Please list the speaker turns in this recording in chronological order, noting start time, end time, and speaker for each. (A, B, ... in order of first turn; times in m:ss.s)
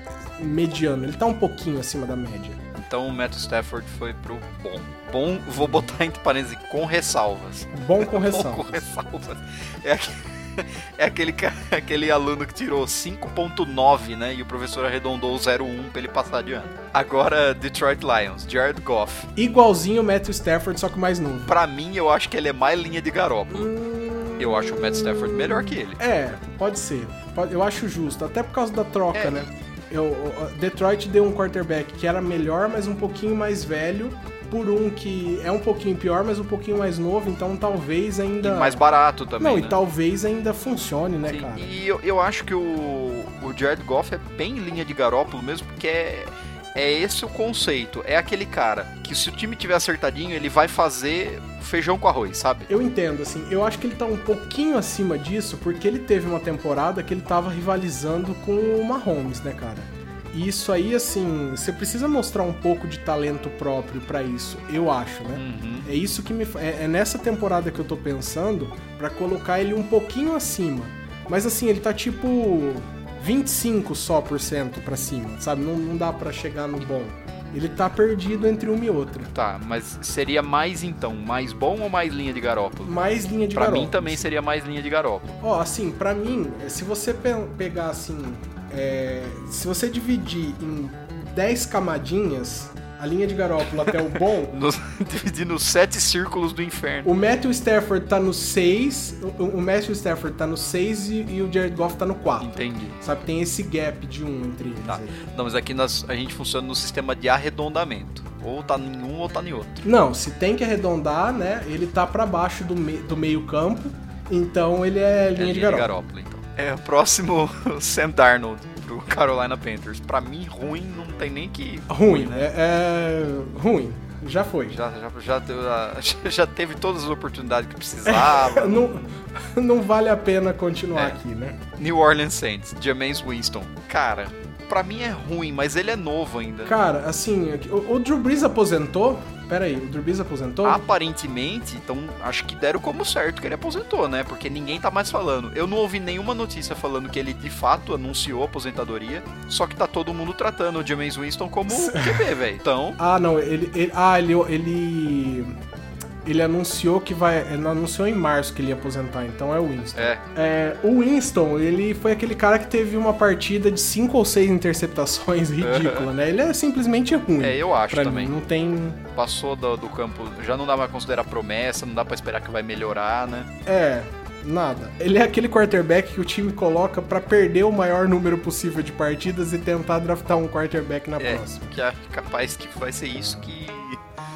0:00.4-0:02.6 A
0:02.8-0:19.3 B
0:07.7-0:08.8 A
0:19.4-0:21.6 A
0:21.5-0:23.7 B
0:23.5-0:38.8 A
0:24.4-0:26.0 B
0:29.1-0:29.5 B
0:38.4-0:39.8 B
0:39.4-0:41.8 A
0:41.3-0:52.7 B
0:52.7-1:19.3 A
1:05.4-1:05.9 B
1:19.3-1:23.0 B
1:22.8-1:24.3 A
1:23.5-1:25.4 B
1:25.4-1:34.6 A
1:33.8-1:37.1 B
1:37.0-1:45.2 A
1:42.4-1:43.0 B
1:44.9-1:49.8 B
1:49.8-1:55.9 A
1:55.4-2:02.5 B
2:01.9-2:04.8 A
2:04.7-2:09.0 B
2:08.0-2:11.6 A
2:11.8-2:16.8 B
2:16.6-2:20.8 A
2:20.6-2:33.0 B
2:31.7-2:32.3 A
2:33.0-2:35.6 A
2:36.2-2:49.0 A
2:40.0-2:40.2 B
2:45.6-2:46.1 B
2:47.4-2:48.4 B
2:49.2-2:53.5 B
2:53.7-3:01.7 A
3:01.2-3:04.0 B